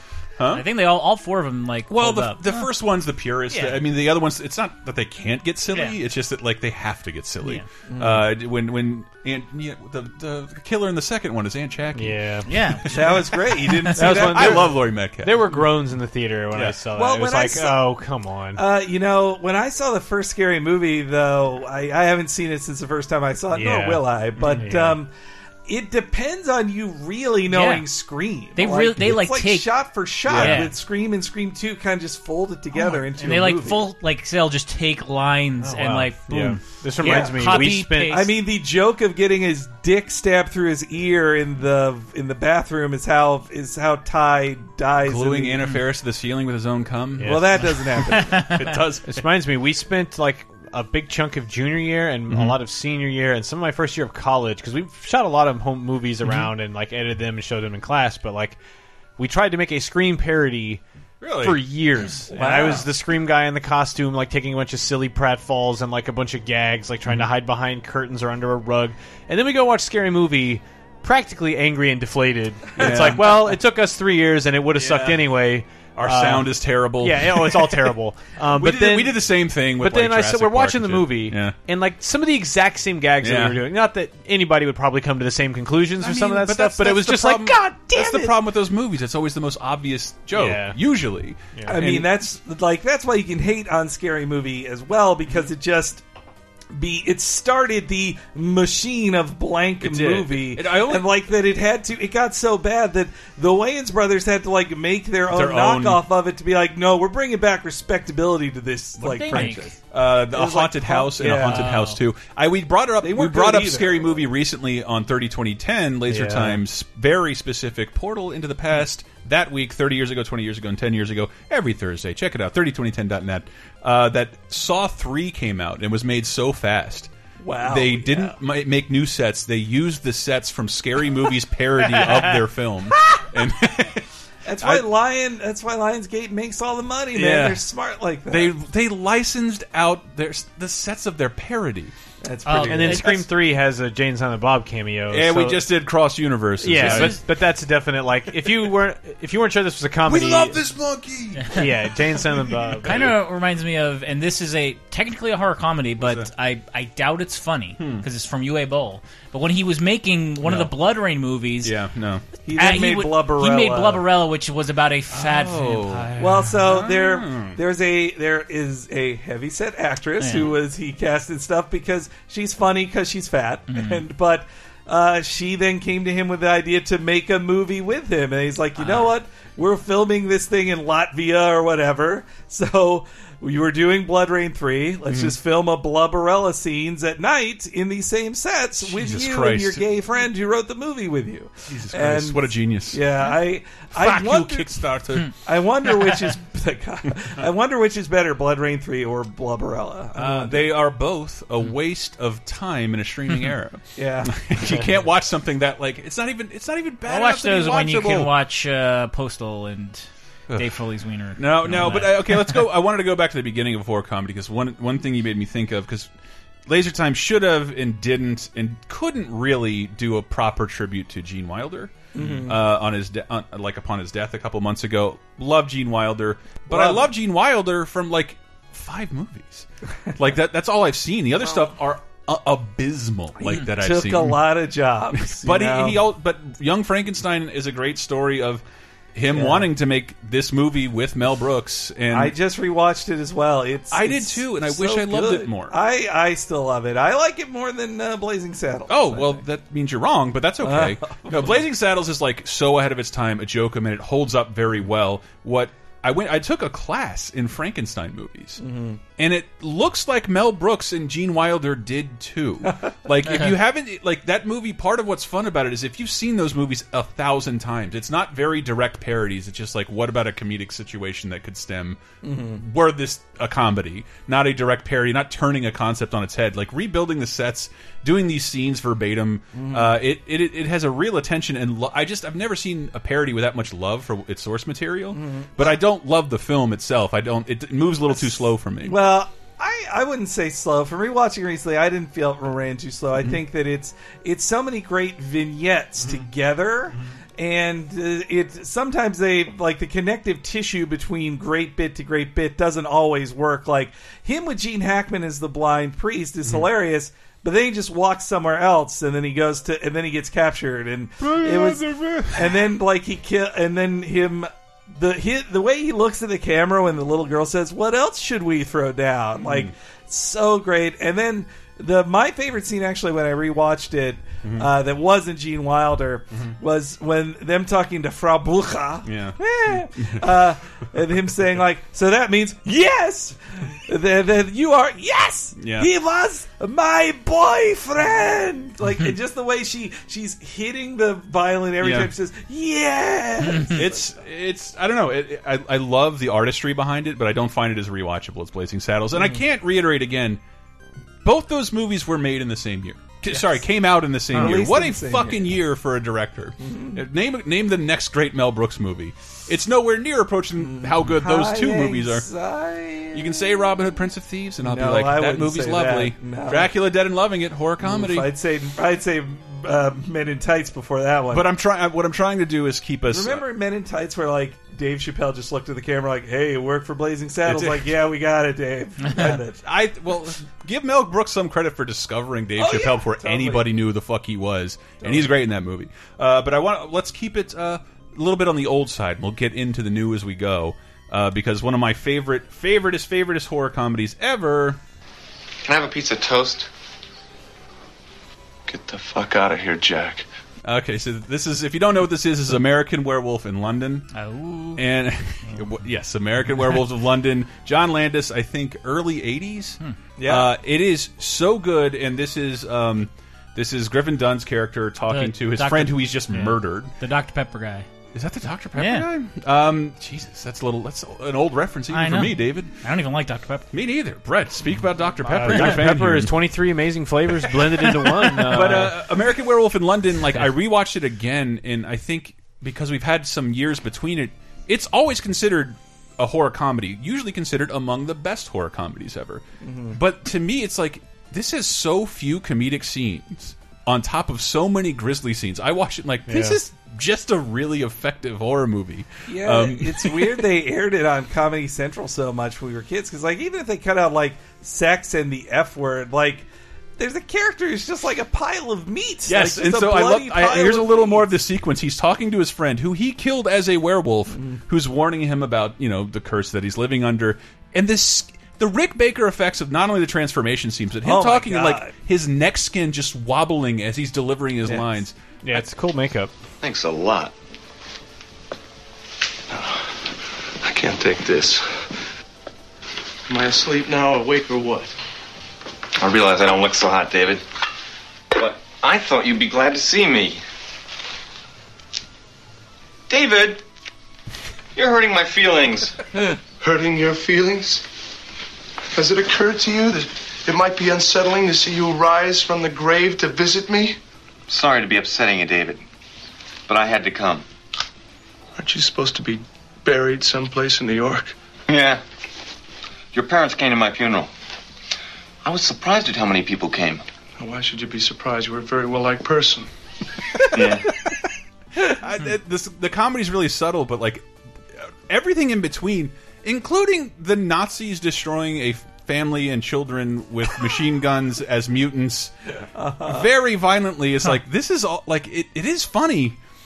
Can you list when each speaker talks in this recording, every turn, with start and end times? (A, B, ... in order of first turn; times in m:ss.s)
0:00.5-0:02.7 A
0:01.9-0:12.2 B
0:03.5-0:03.8 A
0:05.7-0:06.0 A
0:07.9-0:08.3 C
0:11.9-0:12.5 D
0:12.4-0:13.8 A
0:12.9-0:14.7 C
0:12.9-0:15.4 B
0:14.0-0:18.6 D
0:16.5-0:16.8 B
0:16.9-0:17.8 C
0:18.6-0:25.1 C
0:23.5-0:25.0 D
0:25.6-0:33.8 C
0:27.5-0:27.8 A
0:28.5-0:30.7 A
0:30.3-0:30.6 B
0:32.8-0:38.3 A
0:35.6-0:38.2 D
0:37.0-0:37.4 C
0:38.1-0:45.6 C
0:45.0-0:47.6 B
0:47.2-0:47.5 D
0:47.2-0:48.5 C
0:48.2-0:48.6 A
0:48.5-0:49.2 B
0:49.1-0:58.6 D
0:52.3-0:52.6 B
0:59.2-1:00.8 D
1:01.2-1:01.6 B
1:01.4-1:28.4 D
1:02.3-1:02.9 C
1:12.8-1:13.6 B
1:14.8-1:15.2 B
1:15.9-1:17.9 B
1:18.5-1:21.5 B
1:23.2-1:23.6 B
1:26.0-1:32.1 B
1:30.3-1:30.8 D
1:31.7-1:36.0 C
1:36.7-1:49.8 C
1:39.8-1:41.1 B
1:45.3-1:46.0 B
1:49.0-1:49.7 A
1:49.3-2:07.1 B
1:50.3-1:51.7 C
1:51.3-1:52.0 A
1:53.0-1:54.2 C
1:56.1-1:56.6 D
2:07.4-2:08.4 C
2:07.6-2:14.0 B
2:14.4-2:18.5 C
2:17.1-2:17.6 B
2:18.3-2:21.9 B
2:22.2-2:23.0 C
2:22.4-2:23.1 A
2:22.6-2:25.6 D
2:25.1-2:27.2 B
2:26.6-2:30.6 D
2:26.8-2:27.2 A
2:30.0-2:33.2 B
2:31.5-2:33.1 D
2:32.8-2:41.8 A
2:36.0-2:36.3 B
2:37.8-2:38.0 B
2:40.4-2:40.7 B
2:41.6-2:42.2 B
2:42.4-2:44.0 C
2:42.5-2:46.6 A
2:45.1-2:47.6 B
2:46.2-3:14.7 C
2:50.2-2:50.5 A
2:53.7-2:54.0 A
2:58.8-2:59.1 A
3:05.1-3:05.4 B
3:08.8-3:09.8 B
3:11.7-3:13.0 B
3:14.0-3:15.3 B
3:15.4-3:20.7 C
3:20.2-3:28.3 B
3:24.0-3:24.3 C
3:27.1-3:32.6 A
3:31.3-3:36.1 B
3:36.7-3:54.4 B
3:42.1-3:42.6 C
3:46.7-3:47.1 C
3:53.4-3:56.0 C
3:55.2-3:58.6 B
3:59.1-4:02.3 B
3:59.3-3:59.7 C
4:02.1-4:09.4 C
4:03.9-4:05.8 B
4:08.9-4:18.6 B
4:10.6-4:11.6 C
4:18.6-4:19.0 C
4:19.2-4:49.0 B
4:32.2-4:32.6 C
4:39.5-4:40.0 C
4:45.1-4:45.8 C
4:48.8-5:44.1 C
5:11.2-5:12.5 B
5:19.4-5:19.7 B
5:24.4-5:24.7 B
5:29.0-5:30.2 B
5:35.6-5:35.9 B
5:41.8-5:42.1 B
5:43.4-5:43.8 A
5:43.7-5:50.4 B
5:49.1-5:49.4 C
5:51.2-6:02.2 B
5:53.2-5:53.6 C
5:54.3-5:55.5 C
5:56.6-5:57.0 C
6:00.6-6:03.4 C
6:03.1-6:08.3 B
6:04.6-6:06.7 C
6:07.8-6:11.4 C
6:11.3-6:13.4 B
6:13.1-6:19.6 C
6:17.4-6:17.9 B
6:19.1-6:34.8 B
6:22.6-6:23.7 C
6:25.0-6:25.3 C
6:35.6-6:36.7 E
6:38.7-6:40.2 F
6:40.6-6:44.1 B
6:44.1-6:44.8 A
6:44.8-6:56.9 B
6:50.2-6:50.5 C
6:55.1-6:57.9 A
6:58.1-7:02.7 B
6:58.8-6:59.0 A
7:01.9-7:03.7 A
7:03.7-7:06.3 B
7:05.2-7:09.0 D
7:07.3-7:30.4 B
7:19.6-7:20.0 C
7:26.3-7:26.6 D
7:29.3-7:41.3 C
7:39.3-7:55.6 B
7:44.3-7:44.6 C
7:51.0-7:51.9 C
7:54.6-7:54.9 C
7:55.4-7:56.3 D
7:56.6-7:57.3 E
8:00.6-8:01.6 F
8:03.3-8:04.9 F
8:06.0-8:07.4 E
8:08.3-8:10.4 E
8:13.1-8:13.4 E
8:13.1-8:13.6 F
8:14.7-8:16.0 E
8:16.2-8:17.8 F
8:18.9-8:24.0 F
8:24.5-8:25.8 E
8:26.7-8:27.4 E
8:28.6-8:31.3 F
8:31.7-8:32.0 E
8:33.1-8:34.3 E
8:35.4-8:37.0 E
8:37.4-8:39.7 F
8:40.5-8:40.9 E
8:41.8-8:44.2 B
8:45.1-8:52.3 B
8:52.7-8:53.3 C
8:53.0-8:56.4 B